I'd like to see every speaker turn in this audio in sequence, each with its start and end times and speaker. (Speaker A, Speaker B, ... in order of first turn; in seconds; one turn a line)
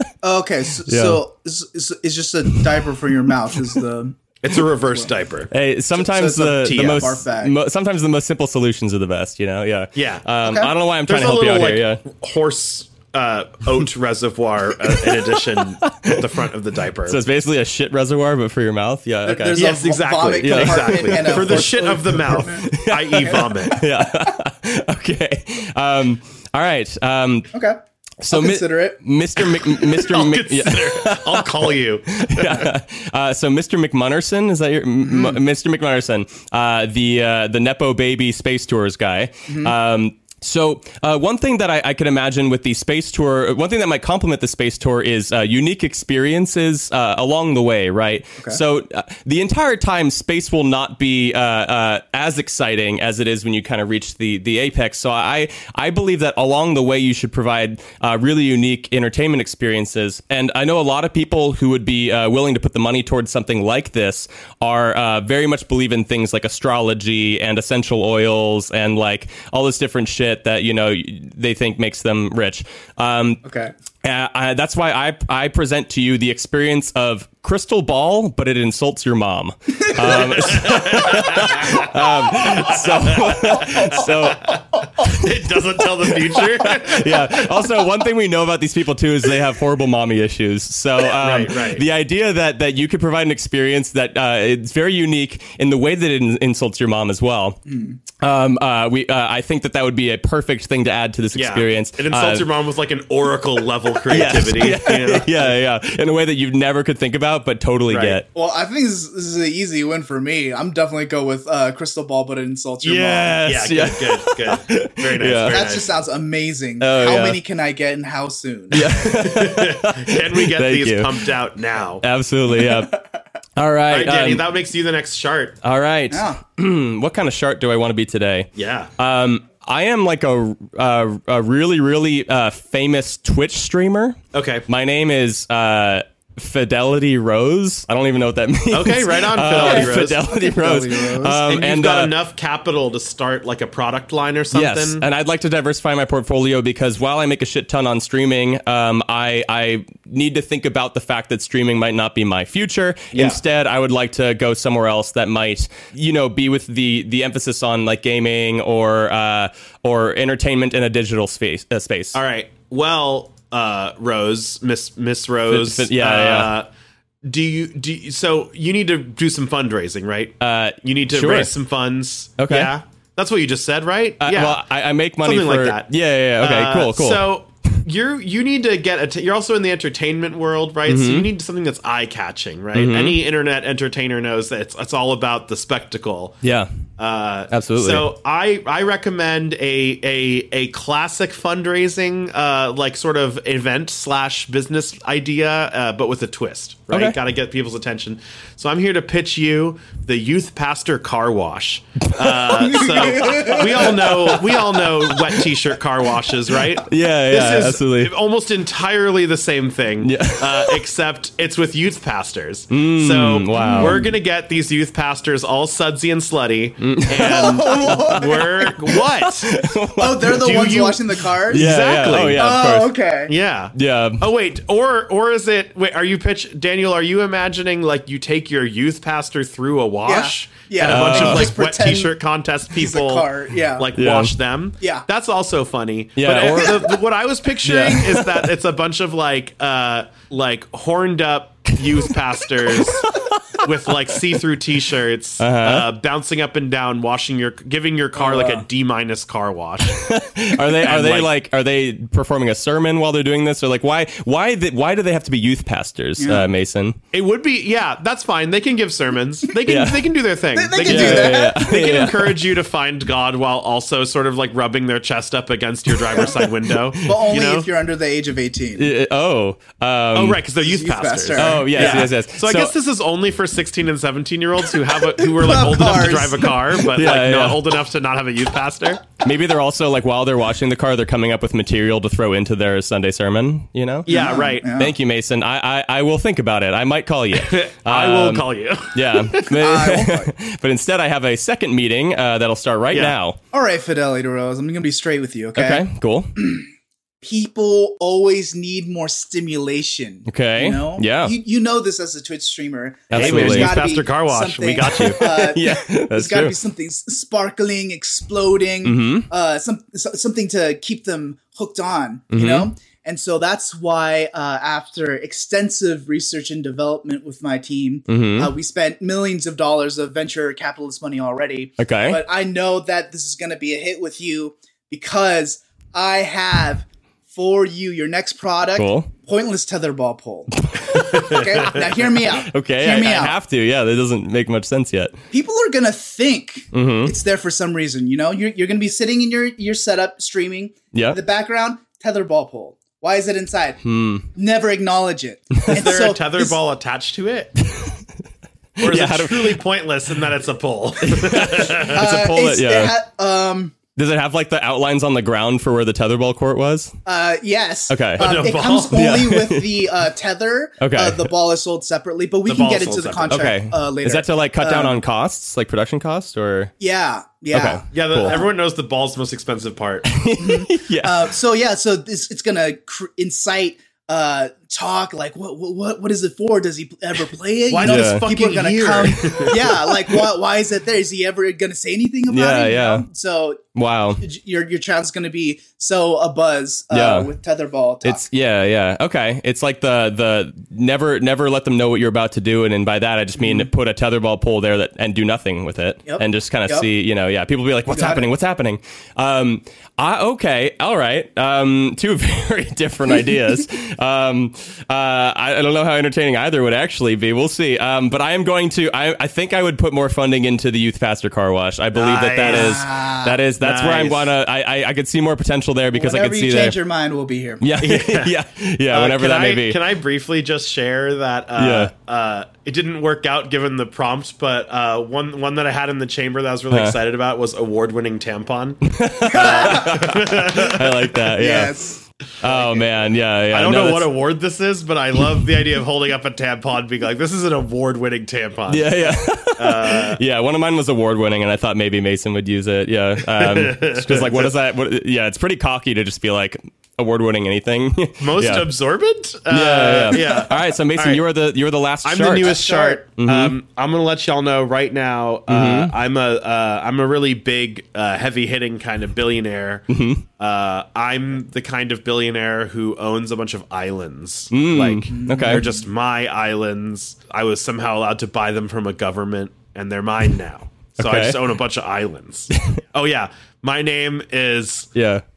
Speaker A: 0.2-4.2
Speaker B: 0.8-1.2
Speaker C: 4.4-5.5
Speaker A: 4.8-5.1
Speaker B: 5.5-12.0
Speaker A: 5.9-7.5
Speaker C: 6.6-7.0
Speaker C: 9.9-10.2
Speaker A: 10.4-10.7
Speaker C: 11.0-17.2
Speaker B: 14.8-16.3
Speaker B: 17.1-19.6
Speaker A: 19.2-23.4
Speaker C: 19.5-23.8
Speaker B: 20.4-21.8
Speaker B: 22.6-27.5
Speaker A: 27.5-27.8
Speaker B: 28.2-73.4
Speaker A: 28.3-29.0
Speaker C: 29.6-32.7
Speaker A: 35.0-35.4
Speaker A: 39.5-39.7
Speaker A: 73.4-73.7
Speaker B: 74.0-85.3
Speaker C: 80.0-81.9
Speaker C: 82.4-87.8
Speaker B: 86.0-97.6
Speaker C: 91.1-91.8
Speaker A: 97.7-98.0
Speaker B: 98.2-102.5
Speaker C: 101.3-105.4
Speaker B: 104.1-108.2
Speaker C: 107.9-108.2
Speaker A: 108.3-113.4
Speaker C: 112.8-116.0
Speaker B: 113.0-115.6
Speaker A: 115.5-118.9
Speaker B: 116.8-117.4
Speaker B: 118.7-121.3
Speaker C: 119.0-122.0
Speaker B: 122.0-123.0
Speaker A: 122.7-123.0
Speaker B: 123.5-124.5
Speaker C: 123.9-125.6
Speaker B: 125.6-142.1
Speaker A: 126.1-126.4
Speaker C: 128.6-128.9
Speaker C: 134.3-134.7
Speaker C: 138.7-140.2
Speaker A: 139.5-141.4
Speaker C: 141.4-145.1
Speaker B: 144.5-162.2
Speaker C: 153.1-153.4
Speaker C: 162.1-166.7
Speaker B: 165.5-166.5
Speaker C: 167.2-174.6
Speaker B: 170.4-171.5
Speaker B: 172.4-172.7
Speaker B: 174.2-177.2
Speaker C: 175.2-186.4
Speaker B: 180.8-181.3
Speaker B: 182.7-183.2
Speaker B: 186.4-186.7
Speaker C: 187.0-219.5
Speaker B: 187.5-188.1
Speaker B: 196.9-197.2
Speaker B: 202.1-204.1
Speaker A: 202.5-204.5
Speaker B: 206.7-208.1
Speaker B: 210.0-210.8
Speaker B: 212.7-214.0
Speaker A: 213.6-214.1
Speaker B: 216.8-220.8
Speaker A: 217.2-218.5
Speaker A: 220.0-221.7
Speaker C: 220.2-222.5
Speaker B: 221.5-222.9
Speaker A: 222.3-223.3
Speaker C: 223.3-250.1
Speaker B: 223.7-224.2
Speaker A: 230.1-232.1
Speaker B: 230.8-231.6
Speaker A: 232.7-233.9
Speaker B: 233.9-234.3
Speaker B: 236.2-237.0
Speaker B: 237.6-238.5
Speaker B: 242.6-243.6
Speaker B: 245.4-245.9
Speaker A: 248.2-248.6
Speaker B: 249.9-257.0
Speaker C: 250.7-251.3
Speaker A: 256.2-256.5
Speaker C: 257.1-267.7
Speaker B: 259.6-260.0
Speaker A: 260.5-261.7
Speaker B: 260.8-262.4
Speaker A: 267.0-268.9
Speaker B: 268.8-270.4
Speaker C: 270.1-279.2
Speaker A: 270.6-272.1
Speaker B: 271.4-272.7
Speaker A: 275.2-276.6
Speaker B: 276.8-277.6
Speaker B: 279.2-293.4
Speaker C: 284.1-284.7
Speaker A: 284.1-284.9
Speaker C: 287.3-289.6
Speaker A: 289.6-290.3
Speaker A: 293.5-295.9
Speaker B: 295.5-296.4
Speaker A: 296.4-296.6
Speaker A: 297.2-333.4
Speaker B: 300.2-301.3
Speaker B: 303.1-303.8
Speaker C: 303.1-305.2
Speaker B: 304.9-306.6
Speaker B: 308.8-309.3
Speaker B: 312.3-312.7
Speaker B: 318.1-318.5
Speaker B: 321.8-322.2
Speaker B: 328.8-329.1
Speaker B: 330.7-335.2
Speaker A: 335.3-343.8
Speaker B: 336.7-337.1
Speaker B: 340.9-341.2
Speaker B: 343.8-344.2
Speaker A: 344.3-346.6
Speaker C: 345.7-347.6
Speaker B: 347.7-347.9
Speaker B: 348.8-349.6
Speaker C: 348.8-352.0
Speaker B: 351.0-352.9
Speaker A: 351.8-353.7
Speaker B: 353.9-356.9
Speaker A: 357.1-365.0
Speaker B: 357.9-358.3
Speaker C: 358.2-359.2
Speaker B: 358.9-359.8
Speaker B: 360.8-361.3
Speaker C: 362.4-363.5
Speaker B: 363.3-366.7
Speaker A: 366.8-368.5
Speaker B: 367.5-368.4
Speaker C: 367.9-370.1
Speaker B: 370.0-371.3
Speaker A: 370.4-383.6
Speaker C: 377.7-379.7
Speaker B: 377.8-378.3
Speaker B: 379.3-379.9
Speaker B: 382.3-383.1
Speaker B: 383.7-384.2
Speaker A: 384.2-388.2
Speaker B: 386.9-387.3
Speaker B: 388.0-416.8
Speaker A: 393.4-393.7
Speaker A: 396.1-396.9
Speaker A: 397.9-398.3
Speaker C: 411.9-412.9
Speaker A: 412.4-413.4
Speaker C: 413.6-414.3
Speaker A: 415.9-417.6
Speaker B: 417.6-419.8
Speaker C: 417.8-418.4
Speaker C: 418.9-431.0
Speaker B: 421.6-421.9
Speaker B: 426.7-427.0
Speaker B: 428.9-431.8
Speaker A: 429.2-430.1
Speaker A: 431.3-432.0
Speaker B: 432.4-434.1
Speaker C: 432.4-432.8
Speaker C: 433.5-440.2
Speaker B: 438.7-448.7
Speaker C: 443.2-444.5
Speaker C: 448.2-451.2
Speaker B: 449.5-452.6
Speaker C: 452.0-474.9
Speaker A: 452.4-453.0
Speaker B: 453.2-453.6
Speaker B: 455.5-455.9
Speaker B: 459.9-460.2
Speaker B: 464.5-465.6
Speaker A: 465.1-465.8
Speaker B: 471.0-471.4
Speaker B: 472.5-472.8
Speaker B: 474.9-475.2